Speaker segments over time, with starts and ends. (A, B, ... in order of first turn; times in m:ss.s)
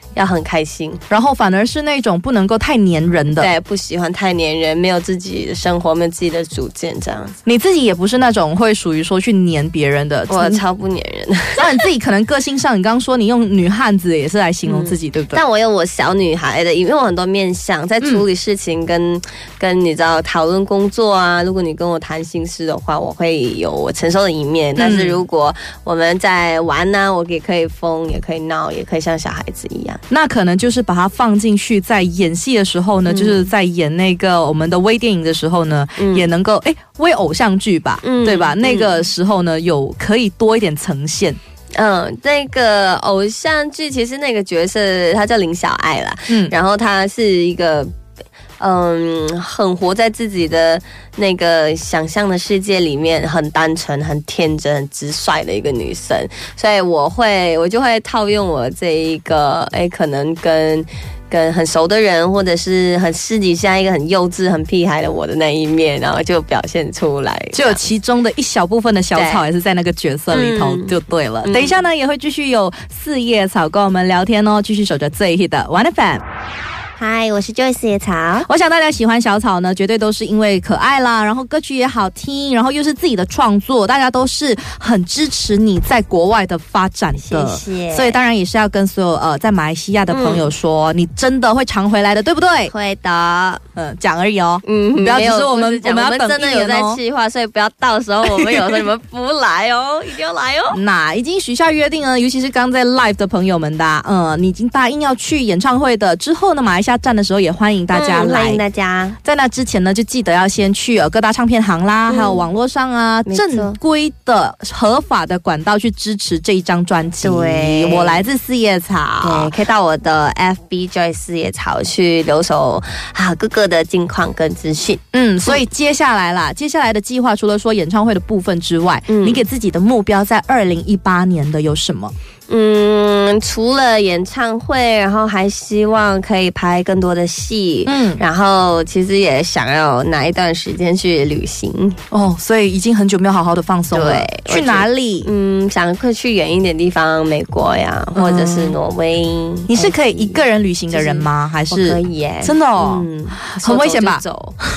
0:00.2-0:01.0 A
0:01.1-0:03.5 B
0:03.3-0:07.4 A
0:07.4-0:10.6 B
0:10.3-0:11.9 A
0:11.6-0:15.4 B
0:14.7-0:30.0 A
0:24.8-0:25.2 B
0:30.1-0:41.4 B
0:33.1-0:33.5 A
0:36.0-0:36.3 A
0:38.0-0:39.0 A
0:41.8-0:47.9 A
0:46.3-0:46.5 B
0:48.6-1:07.8 A
1:07.5-1:16.2 B
1:09.2-1:09.5 A
1:10.3-1:11.8 A
1:17.0-1:18.5 A
1:18.4-1:32.7 B
1:27.2-1:28.2 A
1:30.1-1:30.5 A
1:32.7-1:33.6 A
1:33.8-1:37.0 B
1:34.6-1:40.8 A
1:38.3-1:38.8 B
1:40.7-1:48.6 B
1:47.9-1:49.2 A
1:49.2-1:59.5 B
1:52.1-1:52.5 A
1:53.3-1:53.8 A
1:57.2-1:58.3 A
1:59.2-2:05.6 A
2:05.1-2:12.1 B
2:09.1-2:09.4 A
2:12.5-2:22.0 A
2:17.9-2:18.2 B
2:22.1-2:25.3 B
2:23.9-2:34.6 A
2:28.2-2:28.8 B
2:29.7-2:34.2 B